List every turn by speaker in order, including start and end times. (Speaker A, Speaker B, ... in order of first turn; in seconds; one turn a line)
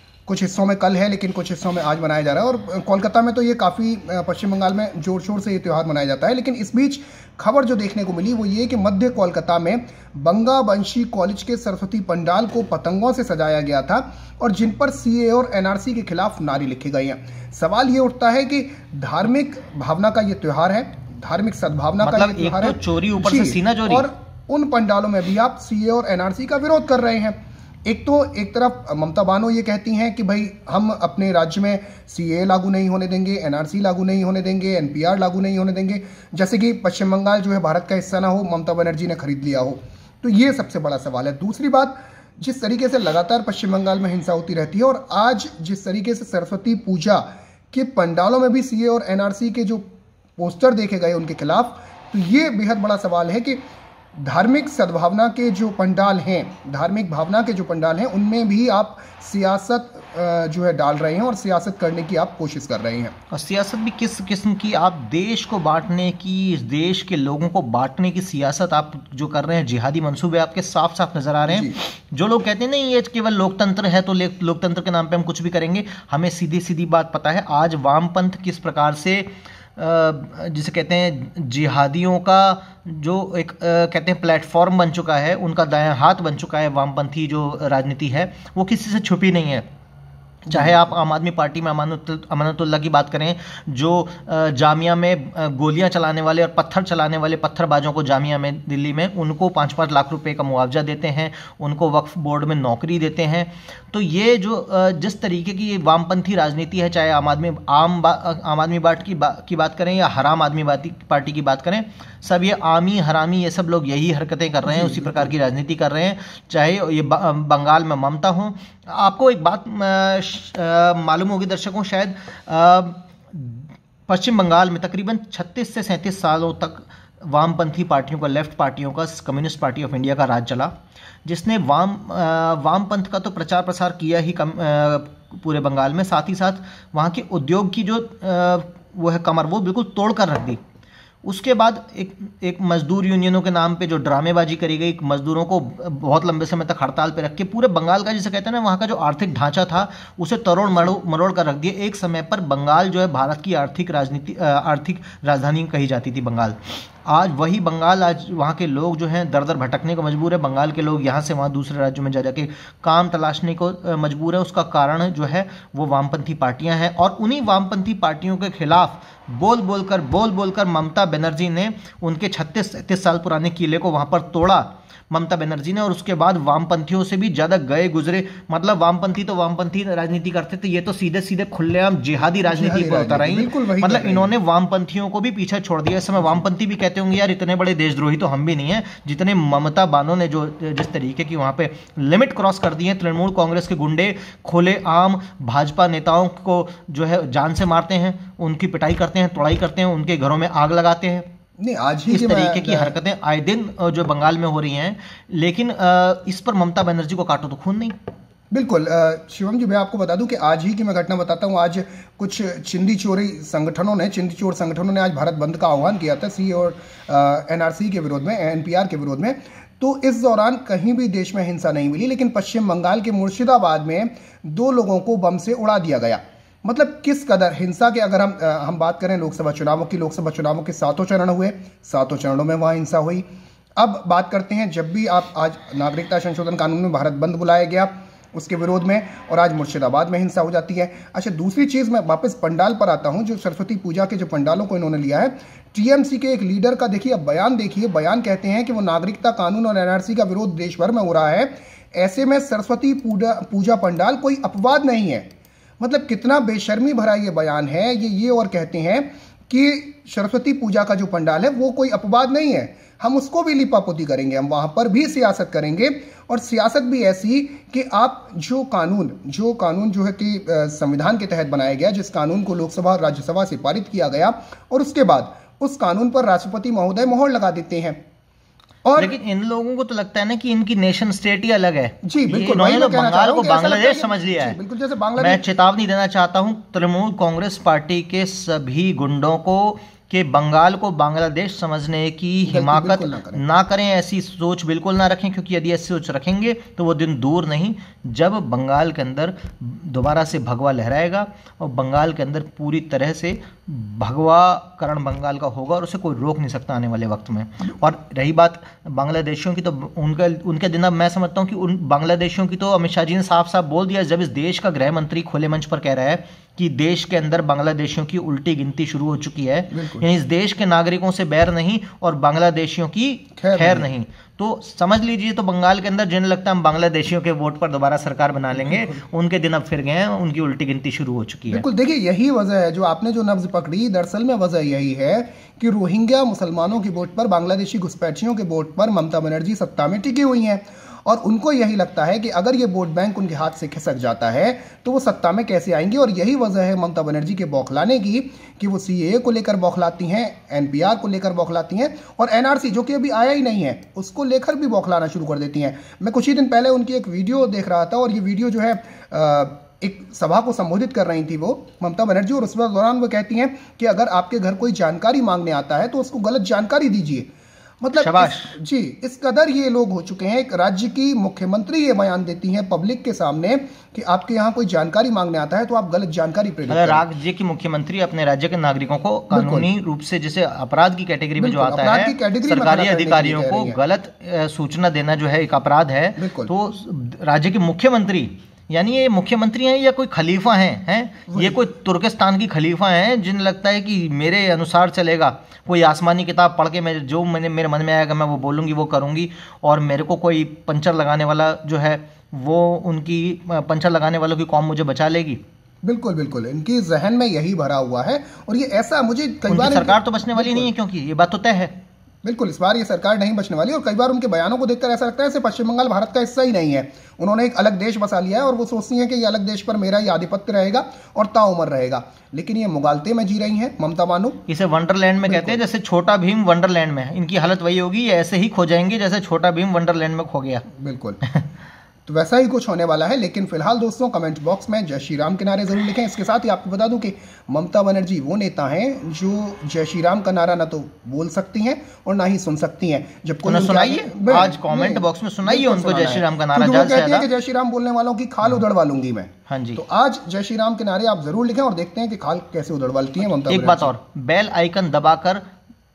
Speaker A: 0.3-49.8
Speaker B: 22.0-24.1
Speaker A: 50.4-53.6
Speaker A: 54.1-63.1
Speaker B: 63.3-89.7
Speaker A: 71.5-71.8
Speaker B: 90.5-130.7
Speaker A: 90.5-90.9
Speaker A: 114.7-115.3
Speaker B: 131.2-140.6
Speaker B: 141.2-201.3
Speaker A: 182.5-184.3
Speaker A: 201.6-202.9
Speaker B: 202.1-207.9
Speaker A: 208.5-233.2
Speaker A: 233.8-255.3
Speaker A: 255.8-278.0
Speaker A: 278.9-279.2
Speaker B: 279.0-284.6
Speaker A: 282.0-285.4
Speaker B: 285.2-331.6
Speaker A: 292.5-293.4
Speaker A: 319.7-320.1
Speaker A: 323.4-323.9
Speaker A: 328.6-329.0
Speaker A: 331.5-367.3
Speaker A: 367.8-377.0
Speaker B: 368.0-368.6
Speaker B: 376.7-405.4
Speaker A: 379.3-379.7
Speaker A: 381.4-383.8
Speaker A: 386.2-386.5
Speaker A: 391.3-391.6
Speaker A: 405.8-410.7
Speaker B: 409.5-411.7
Speaker A: 412.2-424.4
Speaker B: 424.5-430.6
Speaker A: 425.2-425.6
Speaker A: 430.7-431.2
Speaker A: 432.1-453.9
Speaker B: 443.4-447.3
Speaker B: 449.5-449.8
Speaker B: 453.5-455.4